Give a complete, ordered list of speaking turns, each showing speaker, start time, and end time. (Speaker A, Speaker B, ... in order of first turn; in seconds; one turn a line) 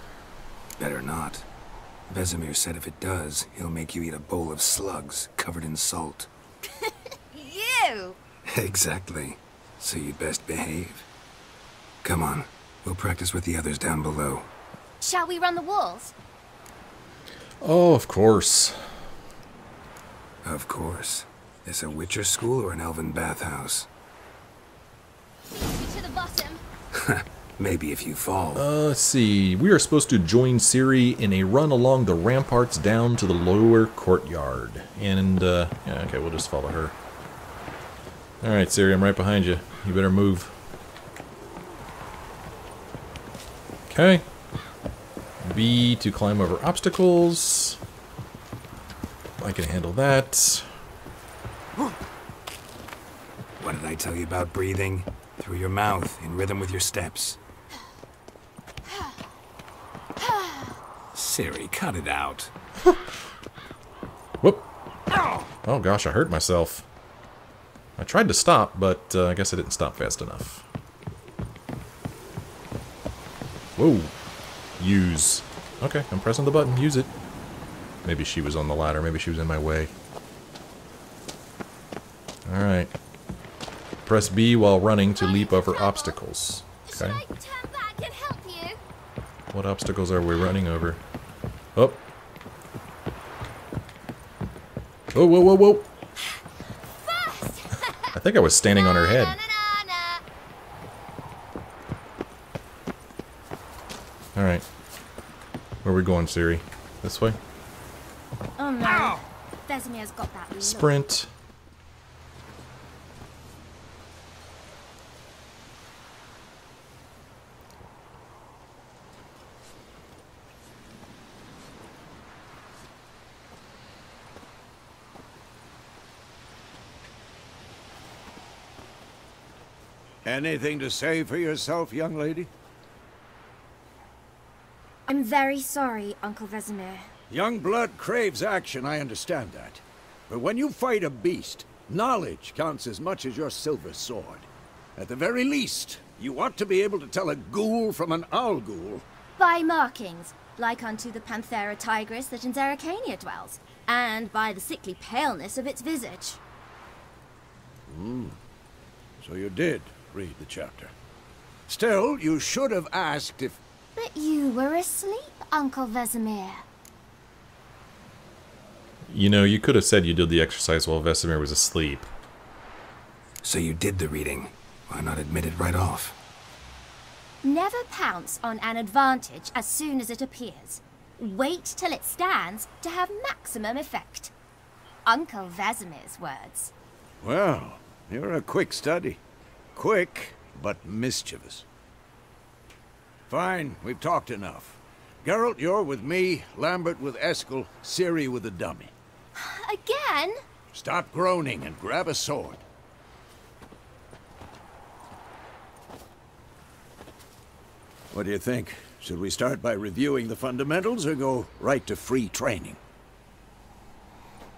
Speaker A: 0.8-1.5
Speaker A: 2.1-6.3
Speaker B: 6.8-8.2
Speaker A: 8.5-11.1
Speaker A: 12.0-14.5
Speaker B: 15.0-16.1
Speaker C: 17.6-19.0
Speaker A: 20.4-23.9
Speaker B: 25.5-26.6
Speaker A: 26.9-28.7
Speaker C: 28.6-37.0
Speaker C: 38.4-40.5
Speaker C: 43.9-44.2
Speaker C: 45.4-47.8
Speaker C: 49.4-50.7
Speaker A: 53.6-57.4
Speaker B: 60.2-60.7
Speaker A: 61.1-62.5
Speaker C: 64.4-64.7
Speaker C: 65.7-66.9
Speaker C: 68.0-70.7
Speaker C: 73.8-74.1
Speaker C: 74.8-77.1
Speaker C: 78.0-79.9
Speaker C: 82.5-83.0
Speaker C: 84.1-87.2
Speaker B: 85.2-86.2
Speaker B: 86.9-88.8
Speaker C: 89.5-91.0
Speaker C: 91.8-92.0
Speaker C: 95.1-95.9
Speaker B: 97.1-98.1
Speaker C: 98.1-99.4
Speaker B: 98.8-100.2
Speaker C: 104.4-104.7
Speaker C: 105.8-107.4
Speaker B: 108.6-111.0
Speaker C: 110.6-111.3
Speaker D: 130.2-132.5
Speaker B: 135.1-137.1
Speaker D: 137.3-149.0
Speaker B: 149.4-156.4
Speaker D: 157.9-158.4
Speaker D: 159.2-160.9
Speaker D: 161.7-163.6
Speaker B: 164.0-166.7
Speaker C: 169.1-172.1
Speaker A: 173.4-176.2
Speaker B: 177.4-184.3
Speaker B: 185.1-186.7
Speaker D: 187.2-189.2
Speaker D: 189.8-191.7
Speaker D: 193.3-198.9
Speaker B: 199.4-200.4
Speaker D: 200.7-202.6
Speaker D: 208.1-212.8